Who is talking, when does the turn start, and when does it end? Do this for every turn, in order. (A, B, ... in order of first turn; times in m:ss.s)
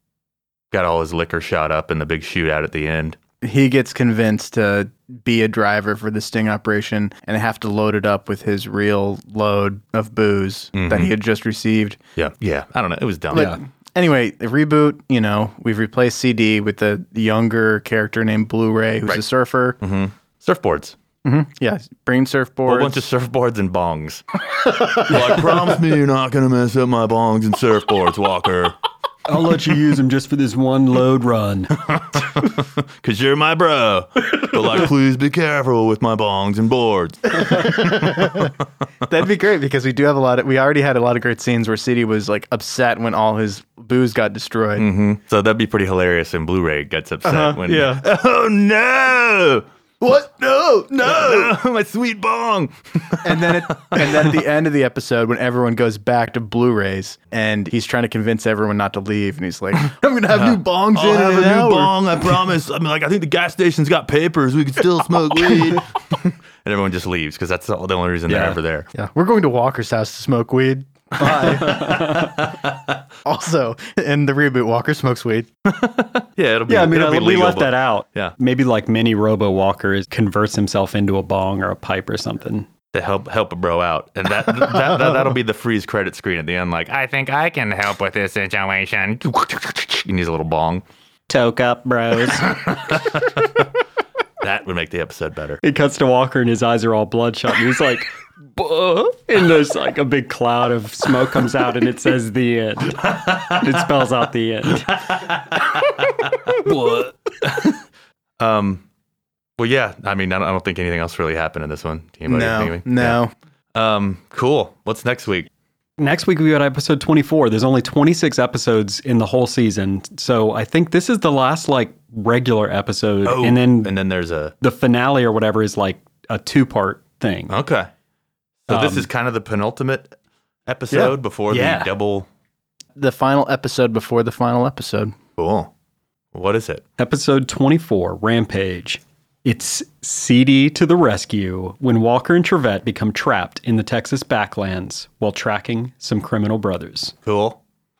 0:00.7-0:03.2 A
0:03.4-0:12.0 B
0:10.7-0:11.1 A
0:12.2-0:13.5 A
0:13.3-0:19.8 B
0:13.3-0:13.6 C
0:19.8-0:20.9 A
0:21.2-0:23.0 B
0:22.6-0:28.8 A
0:29.2-0:31.8 C
0:31.8-0:38.5 A
0:37.5-0:38.5 B
0:39.1-0:44.9 B
0:44.8-0:54.4 A
0:47.2-0:48.0 B
0:51.0-0:51.5 B
0:53.2-1:01.9 B
1:00.3-1:08.9 A
1:08.3-1:08.6 C
1:08.9-1:12.1 B
1:11.2-1:12.9 A
1:11.7-1:12.3 C
1:13.2-1:15.5 B
1:15.6-1:18.3 A
1:16.7-1:22.7 C
1:22.9-1:30.8 A
1:31.3-1:32.6 C
1:32.3-1:33.6 A
1:34.4-1:35.6 A
1:35.6-1:45.0 C
1:43.0-1:43.8 A
1:44.7-1:46.8 A
1:46.6-1:47.1 C
1:47.4-1:47.8 A
1:48.4-1:48.8 A
1:49.6-1:53.2 A
1:52.3-1:53.3 B
1:53.7-1:55.5 A
1:56.0-2:04.0 C
2:03.2-2:04.5 A
2:04.6-2:07.5 C
2:07.5-2:07.9 A
2:08.6-2:10.2 A
2:08.7-2:09.1 C
2:10.7-2:12.3 A
2:10.9-2:11.9 C
2:13.0-2:15.1 B
2:15.4-2:15.7 A
2:16.3-2:16.8 A
2:17.0-2:27.1 C
2:27.2-2:27.6 A